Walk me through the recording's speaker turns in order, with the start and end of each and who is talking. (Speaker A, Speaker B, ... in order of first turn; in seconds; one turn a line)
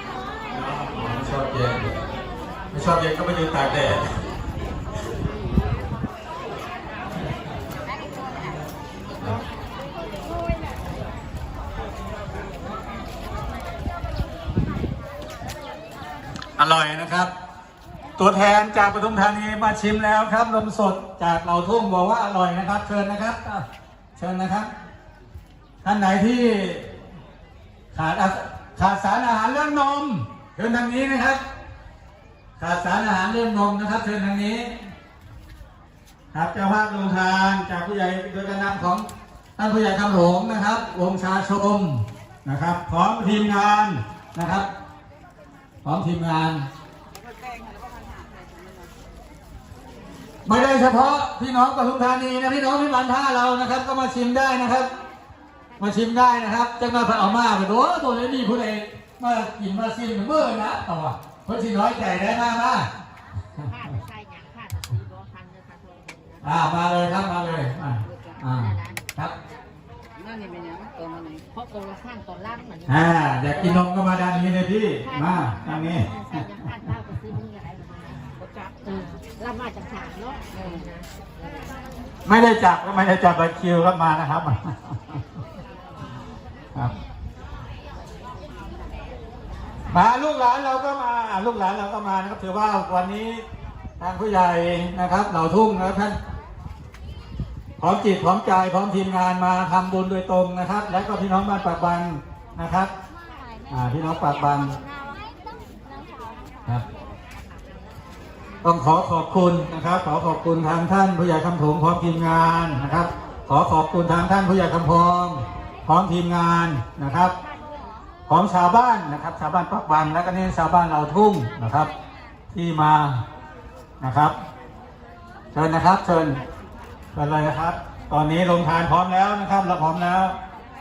Speaker A: 0.5-1.9
Speaker A: 2.7-4.2
Speaker A: 16.6-17.3
Speaker A: 18.2-23.6
Speaker A: 24.1-24.7
Speaker A: 25.8-26.9
Speaker A: 27.9-31.4
Speaker A: 32.6-34.8
Speaker A: 36.3-39.0
Speaker A: 39.6-44.7
Speaker A: 45.8-46.7
Speaker A: 50.4-54.9
Speaker A: 55.8-62.9
Speaker B: 63.6-66.4
Speaker A: 66.4-69.3
Speaker B: 68.5-69.0
Speaker B: 70.2-72.9
Speaker A: 72.8-76.4
Speaker B: 75.9-81.0
Speaker A: 82.2-85.2
Speaker A: 89.9-93.4
Speaker A: 94.0-96.2
Speaker A: 97.8-102.9
Speaker A: 103.7-104.8
Speaker A: 108.6-117.3
Speaker A: 118.3-121.9
Speaker A: 122.5-123.2
Speaker A: 124.0-124.3
Speaker A: 125.5-126.4
Speaker A: 127.1-130.3